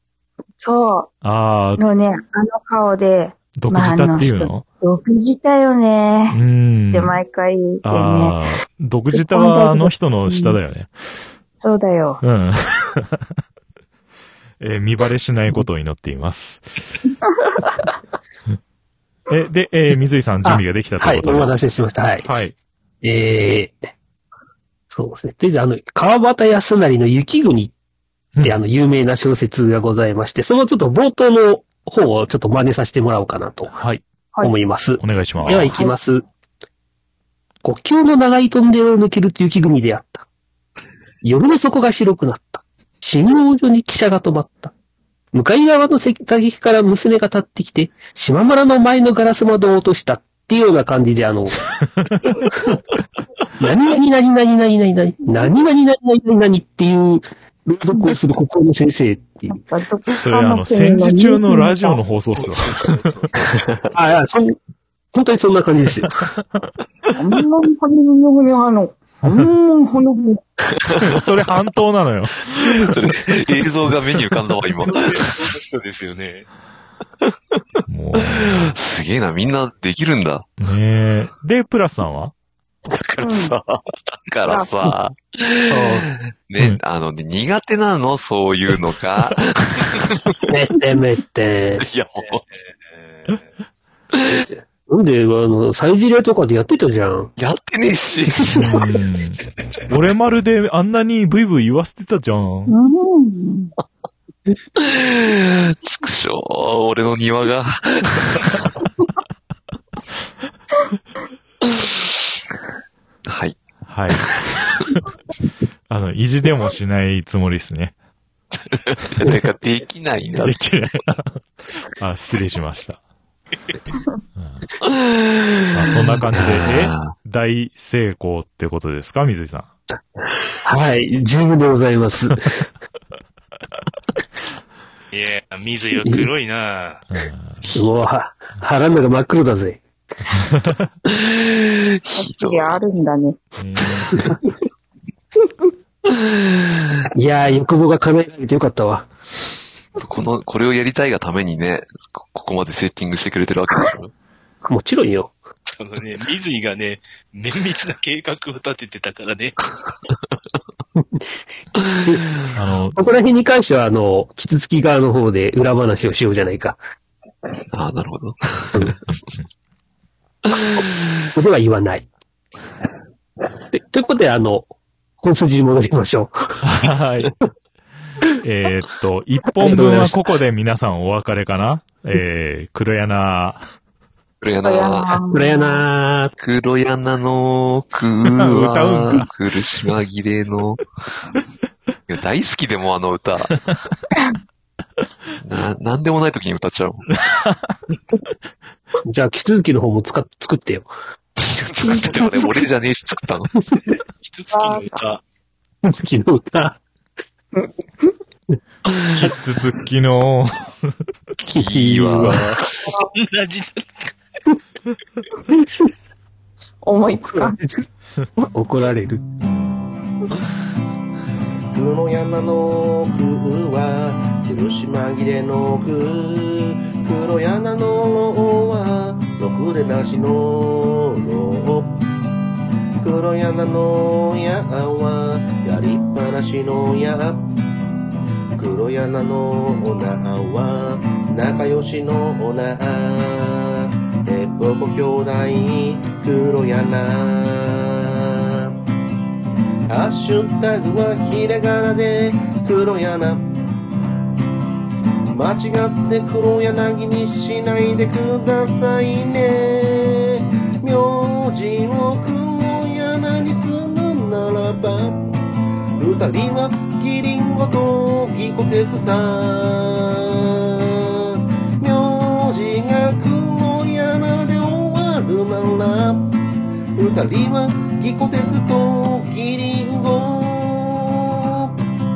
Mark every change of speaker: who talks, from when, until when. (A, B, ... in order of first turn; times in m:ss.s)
0:00.6-0:01.1 A
0:01.2-0:01.8 B
0:01.8-0:06.4 A
0:03.6-0:04.6 B
0:06.3-0:07.2 B
0:06.9-0:08.4 A
0:07.8-0:10.9 B
0:09.1-0:10.6 A
0:11.6-0:12.2 A
0:12.2-0:13.2 B
0:14.6-0:16.6 B
0:17.5-0:17.8 A
0:19.3-0:21.6 B
0:20.4-0:22.3 C
0:22.2-0:22.5 B
0:23.0-0:23.9 C
0:24.9-0:27.7 C
0:28.4-0:33.8 C
0:33.8-0:34.0 B
0:34.4-0:36.2 C
0:35.0-0:35.9 B
0:35.4-0:36.0 A
0:37.6-0:40.2 C
0:41.2-0:44.7 C
0:45.3-0:51.6 C
0:51.8-0:52.3 B
0:52.3-0:52.8 C
0:53.6-0:59.6 C
0:59.5-1:02.0 A
1:00.1-1:03.3 B
1:02.8-1:03.3 D
1:03.4-1:03.8 E
1:03.9-1:04.6 C
1:05.1-1:06.2 C
1:07.1-1:10.4 A
1:09.2-1:09.5 B
1:10.9-1:11.2 E
1:10.9-1:13.0 B
1:12.6-1:15.5 E
1:14.9-1:16.5 D
1:17.9-1:18.7 B
1:18.3-1:20.5 E
1:20.6-1:22.3 B
1:22.9-1:30.4 E
1:23.2-1:23.5 A
1:25.7-1:26.1 C
1:30.5-1:31.8 C
1:31.8-1:32.4 E
1:32.5-1:33.5 D
1:34.2-1:37.3 C
1:37.4-1:38.8 E
1:38.5-1:42.7 B
1:42.7-1:43.7 A
1:44.8-1:48.7 E
1:53.2-1:53.6 E
1:53.9-1:55.0 B
1:55.9-1:57.9 B
1:58.7-2:00.6 E
2:00.4-2:01.4 B
2:01.9-2:03.0 B
2:04.4-2:04.6 B
2:04.9-2:07.1 E
2:05.7-2:09.7 B
2:10.6-2:12.6 C
2:15.1-2:17.0 D
2:16.0-2:16.3 C
2:17.1-2:17.7 B
2:17.7-2:19.8 C
2:20.4-2:20.9 B
2:21.1-2:22.8 E
2:22.1-2:23.4 A
2:23.6-2:24.1 B
2:24.1-2:24.4 C
2:26.1-2:26.8 E
2:27.1-2:29.1 C
2:30.0-2:34.1 E
2:34.6-2:35.4 C
2:35.7-2:39.7 D
2:41.0-2:41.2 C
2:42.0-2:42.4 C
2:42.5-2:43.0 B
2:43.0-2:46.8 C
2:47.7-2:49.1 E
2:50.5-2:50.8 E
2:50.8-2:52.1 C
2:53.7-2:54.7 C
2:55.2-2:56.3 C
2:56.6-2:57.3 B
2:58.4-3:03.6 B
2:59.6-3:00.3 C
3:04.4-3:05.2 E
3:04.6-3:05.8 A
3:05.3-3:06.3 C
3:06.4-3:10.8 E
3:08.3-3:09.3 B
3:12.1-3:13.7 E
3:15.4-3:17.1 E
3:17.3-3:17.6 B
3:19.0-3:20.9 C
3:21.4-3:23.5 E
3:21.8-3:22.5 A
3:24.2-3:25.2 D
3:24.5-3:25.0 A
3:25.8-3:26.8 C
3:27.5-3:28.1 A
3:29.0-3:30.9 B
3:31.4-3:32.9 E
3:31.5-3:32.6 C
3:33.1-3:34.4 D
3:35.4-3:36.0 C
3:36.8-3:37.6 A
3:37.3-3:37.8 C
3:38.4-3:39.2 C
3:41.7-3:52.0 F
3:53.0-3:57.5 F
3:58.6-4:08.7 F
4:09.9-4:13.5 F
4:15.3-4:25.2 F
4:26.0-4:36.3 F
4:37.0-4:41.7 F